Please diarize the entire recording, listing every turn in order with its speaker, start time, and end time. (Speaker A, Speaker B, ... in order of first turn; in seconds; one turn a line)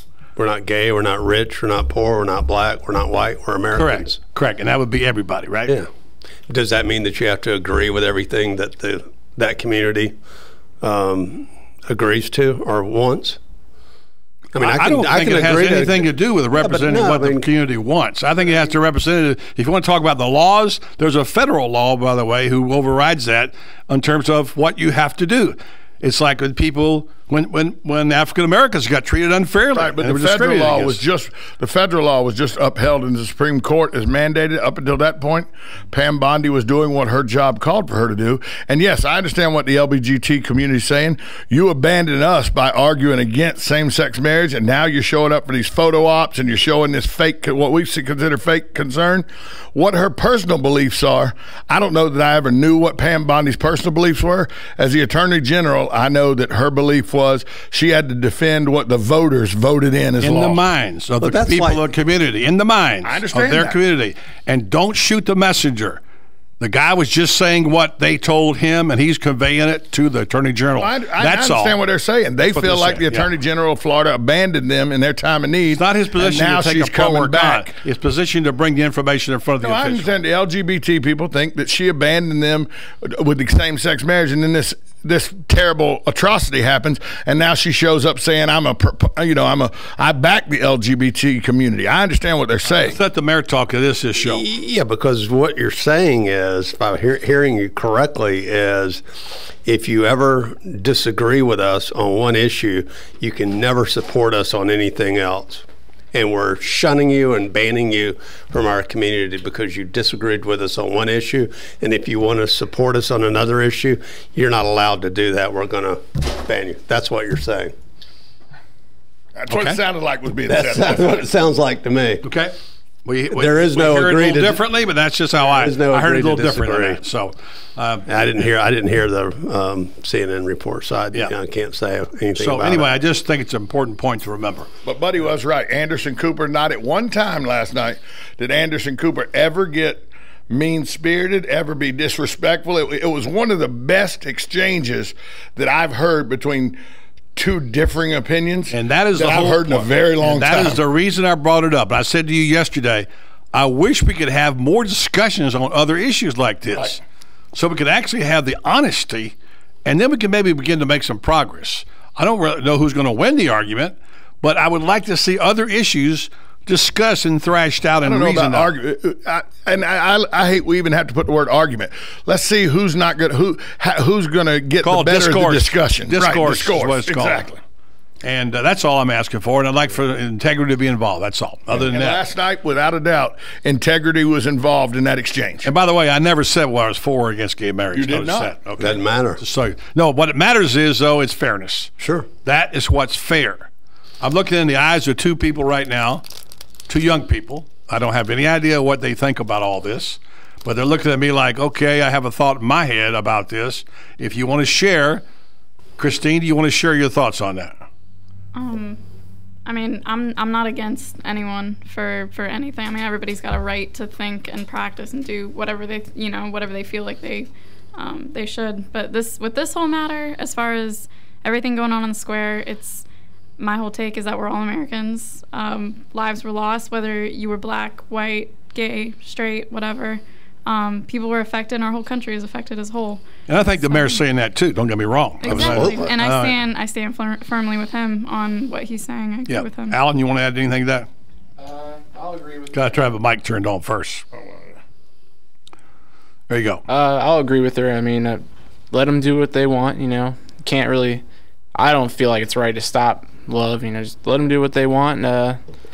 Speaker A: 0.4-4.2
Speaker B: 3.7-5.8
Speaker A: 6.5-10.1
Speaker A: 10.8-13.4
Speaker A: 14.5-17.5
Speaker B: 14.6-31.0
Speaker C: 29.7-60.6
Speaker B: 60.2-66.0
Speaker A: 61.2-61.9
Speaker C: 63.0-63.8
Speaker B: 66.6-71.8
Speaker C: 70.8-77.7
Speaker B: 72.5-73.3
Speaker B: 75.7-80.1
Speaker C: 79.6-93.0
Speaker B: 92.6-94.4
Speaker A: 94.2-99.0
Speaker A: 99.6-117.7
Speaker C: 119.4-121.3
Speaker B: 119.5-119.8
Speaker A: 120.5-122.2
Speaker B: 122.2-122.5
Speaker B: 123.0-128.5
Speaker A: 123.3-124.7
Speaker A: 125.5-127.0
Speaker A: 128.1-132.9
Speaker B: 132.4-134.7
Speaker C: 134.8-146.8
Speaker C: 147.3-150.8
Speaker B: 148.7-157.0
Speaker B: 157.5-159.3
Speaker B: 159.8-168.7
Speaker C: 168.0-177.6
Speaker B: 174.8-177.5
Speaker B: 178.2-182.2
Speaker C: 181.7-185.7
Speaker B: 185.6-191.9
Speaker C: 187.9-188.5
Speaker A: 188.8-189.4
Speaker A: 192.0-192.2
Speaker B: 192.4-193.7
Speaker B: 194.2-196.2
Speaker B: 196.9-205.2
Speaker B: 206.0-207.8
Speaker D: 208.5-209.0
Speaker D: 209.7-223.0
Speaker D: 223.6-234.2
Speaker B: 233.5-236.6
Speaker D: 235.4-240.0
Speaker A: 235.6-236.1
Speaker B: 239.5-241.1
Speaker B: 242.7-244.2
Speaker B: 246.5-246.8
Speaker E: 246.9-251.2
Speaker E: 251.7-255.6